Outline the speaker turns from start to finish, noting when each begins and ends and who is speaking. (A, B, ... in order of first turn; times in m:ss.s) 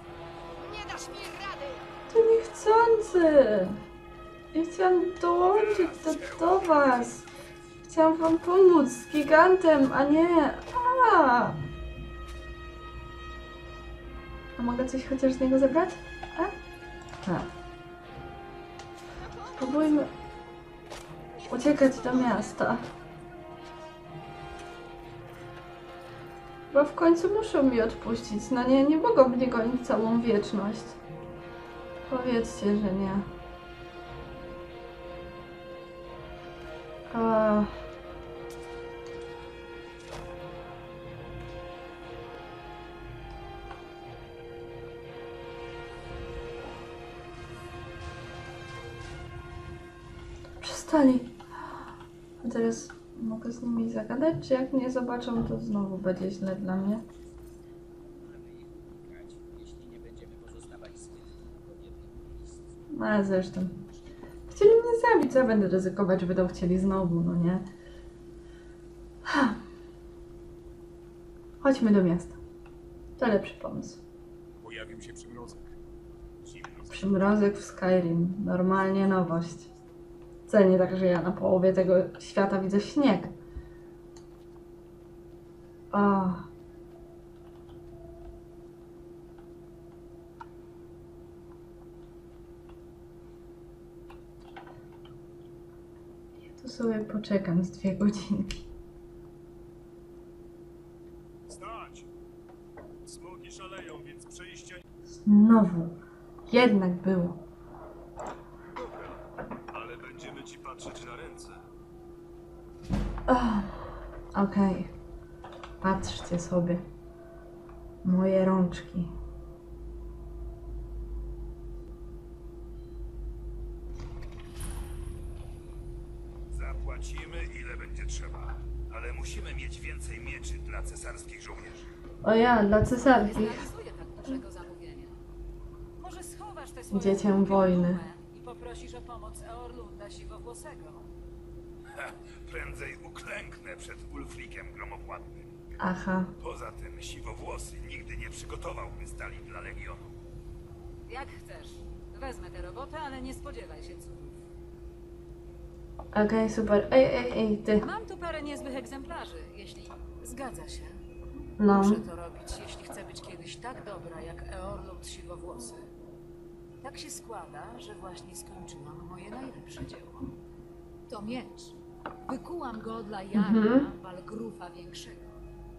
0:00.6-0:01.8 A
0:02.1-0:03.8 B
0:04.5-0:07.2 B
0:05.5-0:06.8 C
0:07.8-0:11.6 B
0:14.6-0:16.5 B
0:17.2-0:17.5 B
0:19.2-0:19.7 A
0:19.6-0:20.1 B
0:21.4-0:22.5 A
0:21.5-0:22.8 B
0:26.7-0:31.0 B
0:32.1-0:33.3 B
0:37.1-0:37.7 B
0:50.6-0:51.3 B
0:52.4-0:57.0 B
0:58.2-1:02.9 D
1:02.9-1:03.8 B
1:04.5-1:07.6 B
1:09.2-1:09.6 B
1:11.6-1:12.4 B
1:13.2-1:14.0 B
1:14.6-1:15.7 C
1:16.5-1:16.9 C
1:16.9-1:19.7 B
1:20.5-1:23.3 B
1:25.9-1:26.5 B
1:36.5-1:38.6 B
1:41.5-1:42.0 C
1:43.1-1:44.8 C
1:45.1-1:47.4 B
1:48.7-1:49.1 C
1:49.7-1:51.5 C
1:53.3-1:54.9 B
1:55.8-1:56.8 B
1:58.0-1:59.1 B
2:06.5-2:11.9 C
2:12.2-2:13.7 B
2:13.0-2:15.2 E
2:16.0-2:21.0 E
2:16.9-2:18.0 B
2:21.9-2:25.5 C
2:25.8-2:26.3 B
2:26.4-2:30.1 C
2:31.1-2:34.4 E
2:36.1-2:37.8 B
2:37.8-2:41.0 E
2:41.6-2:42.0 B
2:41.6-2:45.8 E
2:46.8-2:50.3 E
2:51.1-2:51.7 E
2:52.2-2:55.3 E
2:53.3-2:53.9 B